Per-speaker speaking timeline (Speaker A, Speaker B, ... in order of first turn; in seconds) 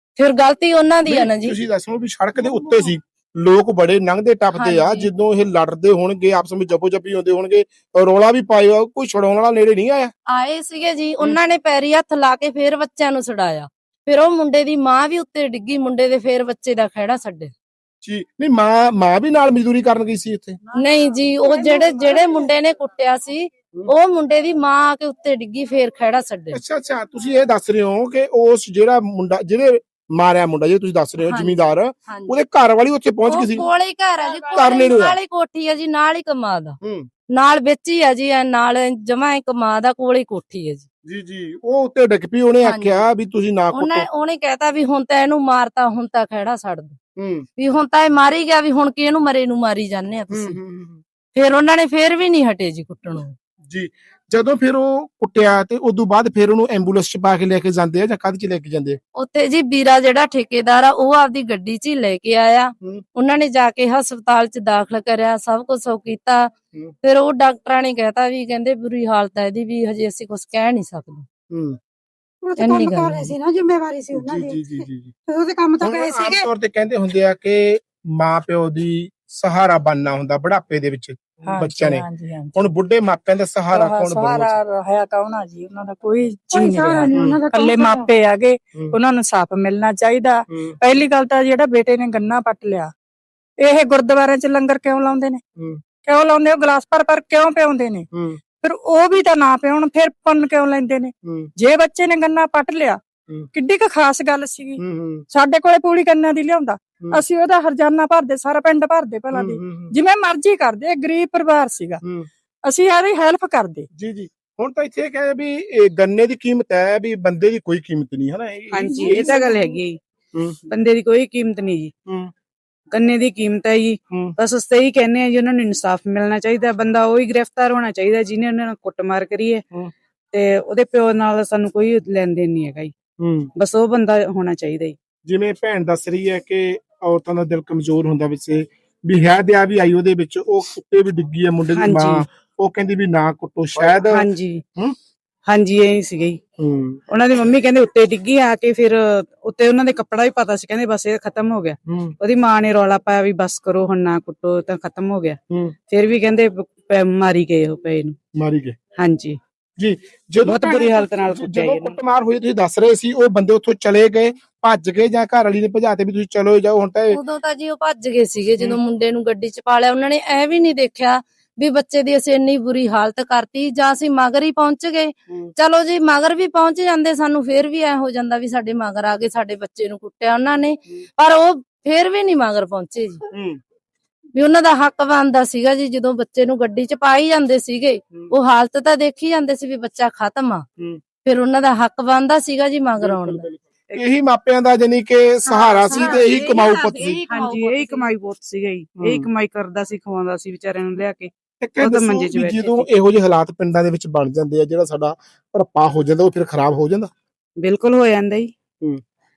Speaker A: 0.2-1.6, 4.5-5.1, 10.3-17.5, 20.7-26.6, 31.2-32.4, 33.3-36.8, 37.3-40.9, 42.6-43.0, 43.7-47.0, 47.6-50.6, 51.3-53.3, 59.1-66.5, 67.0-71.2, 72.6-73.3, 167.1-183.2, 184.3-190.7, 191.2-193.4, 195.5-198.0
Speaker B: 1.1-10.1, 18.0-20.6, 26.5-33.7, 34.5-35.1, 36.8-37.1, 41.0-44.0, 47.1-47.5, 50.3-51.0, 53.6-59.0, 71.5-71.8, 74.1-75.1, 75.8-84.5, 98.1-98.4, 101.2-101.5, 104.8-105.2, 109.3-109.9, 113.9-119.4, 133.2-133.5, 135.2-144.9, 146.6-147.0, 151.9-152.2, 155.5-155.7, 158.3-158.8, 159.8-167.2, 183.3-183.6, 193.0-197.2, 199.0-199.2, 201.6-207.1
Speaker C: 72.4-76.5, 86.5-88.1
Speaker D: 81.4-82.6, 83.7-92.9, 93.6-95.4, 96.0-98.1, 98.6-103.0, 103.5-112.0, 112.7-113.8
Speaker E: 118.7-120.0, 120.7-121.9, 122.9-129.6, 130.3-132.9, 133.6-134.9, 141.8-142.2, 144.1-144.6, 145.5-146.4, 147.1-155.4, 155.9-158.2, 159.0-159.4, 160.4-162.0, 197.3-202.9, 207.6-208.5